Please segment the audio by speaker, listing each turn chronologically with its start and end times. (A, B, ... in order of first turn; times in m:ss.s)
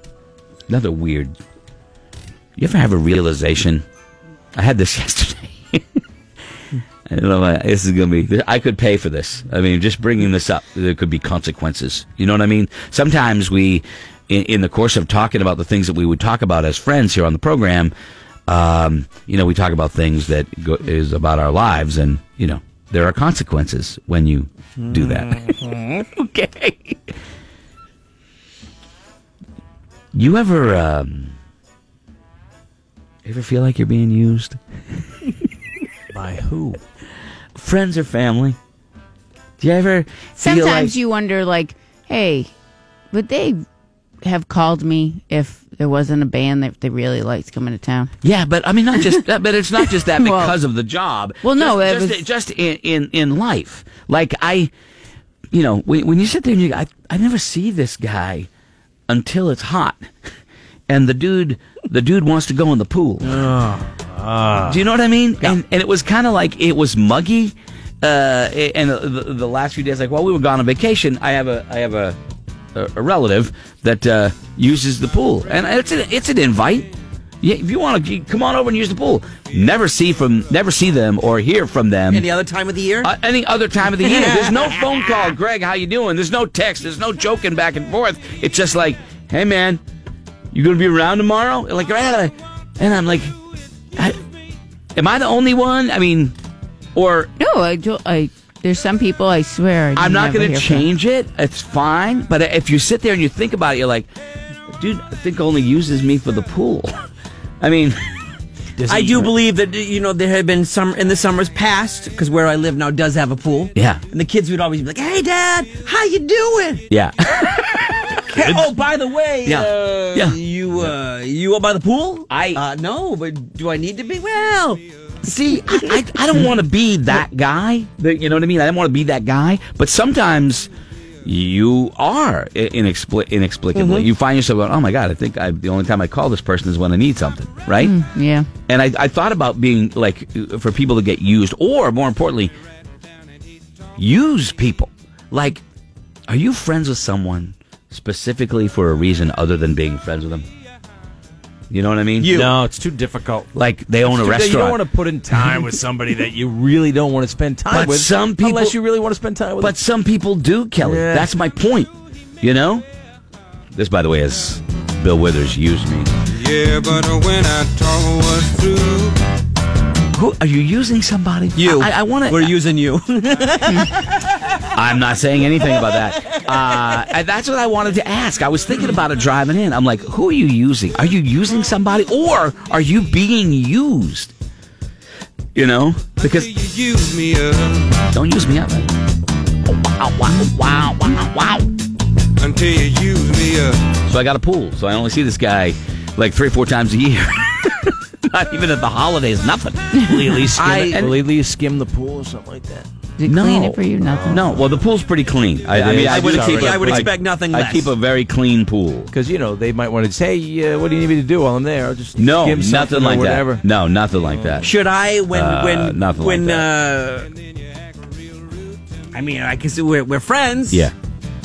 0:00.7-0:01.4 A
0:02.6-0:03.8 A
0:04.5-0:05.8 A
0:07.1-0:17.9 A
0:18.5-0:27.0 A
0:24.8-0:26.0 B
0:30.1-0:31.3 A
0:33.2-0:34.6 A
0:36.1-0:36.8 C
0:37.5-0:38.6 A
0:39.6-0:41.0 A
0:40.4-0:42.5 D
0:43.1-0:43.6 D
0:44.2-0:48.1 D
0:48.2-0:54.7 A
0:50.0-0:50.6 D
0:51.4-0:52.2 D
0:55.5-0:58.5 A
0:59.1-1:00.1 A
1:00.9-1:03.4 A
1:03.3-1:04.5 B
1:04.6-1:12.2 A
1:12.7-1:16.9 A
1:17.4-1:22.2 A
1:22.1-1:23.1 B
1:23.0-1:29.8 A
1:24.0-1:25.4 B
1:30.5-1:33.3 A
1:35.0-1:36.3 A
1:37.0-1:37.3 A
1:37.4-1:40.9 D
1:40.0-1:44.1 A
1:44.7-1:46.9 A
1:47.6-1:48.3 A
1:48.8-1:49.3 C
1:48.8-1:56.9 B
1:53.7-1:54.0 A
1:56.9-1:58.6 A
1:58.1-2:06.0 B
1:59.4-2:00.4 A
2:02.3-2:02.6 A
2:05.3-2:10.7 A
2:11.2-2:17.9 A
2:13.7-2:14.1 B
2:17.8-2:18.5 D
2:18.7-2:22.5 A
2:24.0-2:25.6 A
2:26.3-2:30.4 A
2:31.7-2:32.4 A
2:32.2-2:32.5 B
2:32.3-2:33.5 C
2:33.5-2:34.8 A
2:34.0-2:39.8 C
2:37.7-2:38.8 A
2:39.6-2:41.9 A
2:40.8-2:41.3 C
2:42.4-2:42.8 A
2:43.7-2:46.1 A
2:46.3-2:49.2 E
2:50.1-2:52.6 A
2:51.6-2:54.6 B
2:54.6-3:04.3 A
2:55.4-2:57.0 B
3:05.5-3:06.5 A
3:06.6-3:07.9 E
3:08.1-3:08.9 A
3:09.7-3:11.7 A
3:12.4-3:13.9 E
3:14.0-3:21.1 A
3:20.3-3:22.9 C
3:20.6-3:21.0 B
3:23.2-3:24.4 D
3:23.2-3:29.1 A
3:24.0-3:24.8 C
3:25.7-3:27.1 C
3:26.0-3:27.9 B
3:29.1-3:33.6 C
3:32.2-3:34.7 A
3:34.3-3:34.6 C
3:34.6-3:37.3 B
3:35.3-3:36.7 A
3:39.1-3:40.9 B